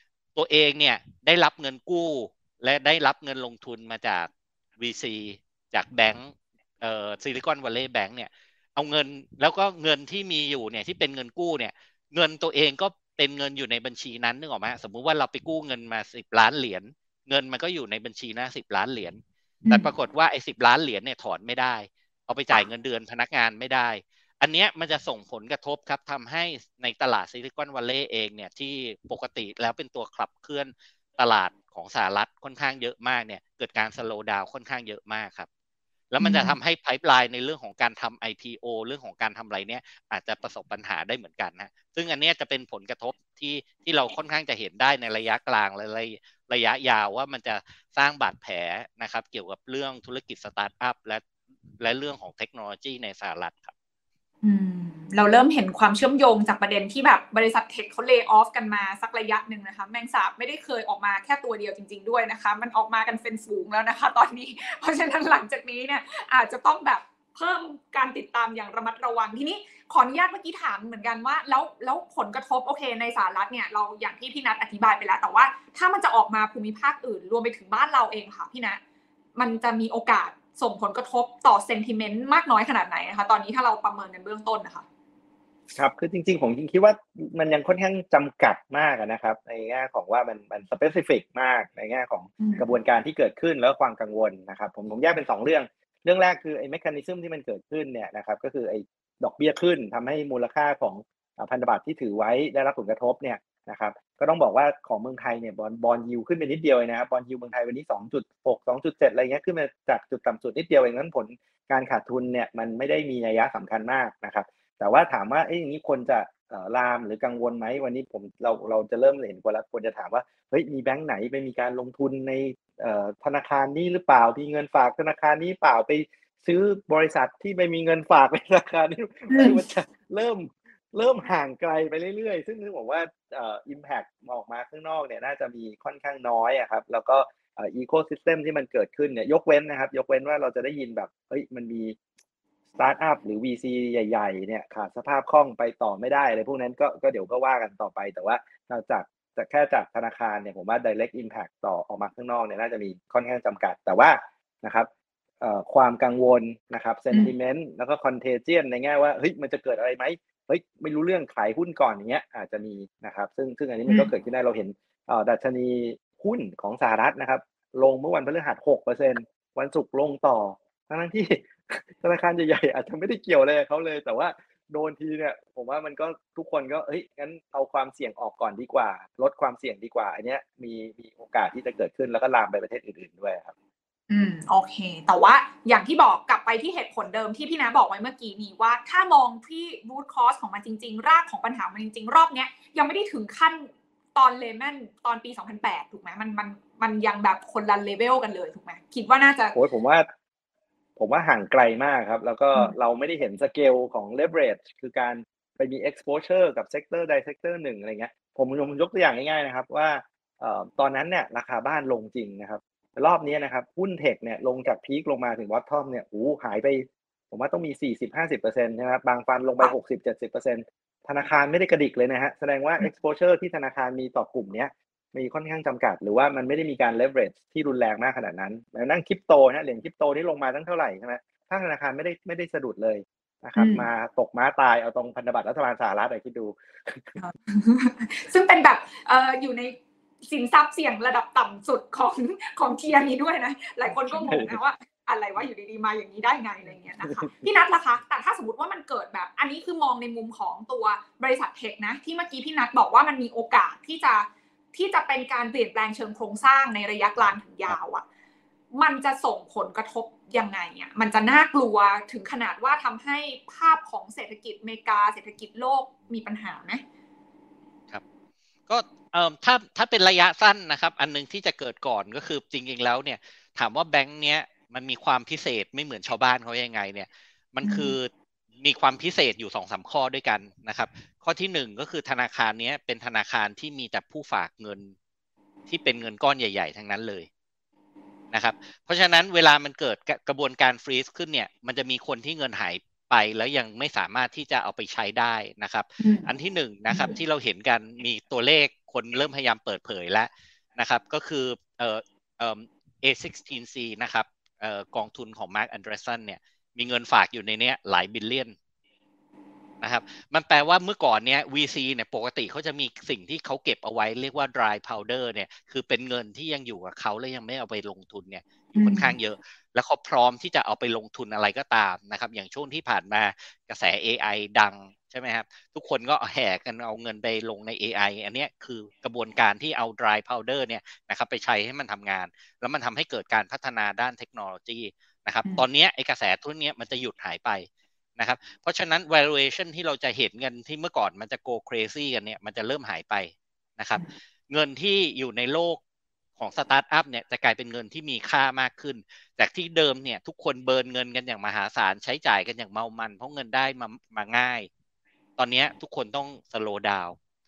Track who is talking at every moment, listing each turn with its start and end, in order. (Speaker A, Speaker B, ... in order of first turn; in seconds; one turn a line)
Speaker A: 0.3-35.5
Speaker A: 36.1-51.2
Speaker B: 36.2-36.5
Speaker A: 51.8-53.7
Speaker B: 54.4-78.8
Speaker B: 79.3-84.8
Speaker C: 85.7-142.0
Speaker B: 92.4-92.7
Speaker B: 129.3-129.6
Speaker C: 142.8-154.9
Speaker C: 155.4-183.5
Speaker B: 184.1-199.6
Speaker C: 199.5-200.1
Speaker C: 201.0-237.1
Speaker B: 233.6-233.8
Speaker B: 237.2-258.0
Speaker C: 243.9-244.6
Speaker C: 247.1-247.3
Speaker B: 258.8-266.8
Speaker A: 268.7-284.9
Speaker B: 277.6-277.9
Speaker A: 285.7-287.3
Speaker A: 288.3-308.5
Speaker B: 296.0-296.3
Speaker B: 296.9-297.1
Speaker A: 309.8-345.8
Speaker B: 318.8-319.1
Speaker A: 346.4-354.7
Speaker A: 355.4-357.2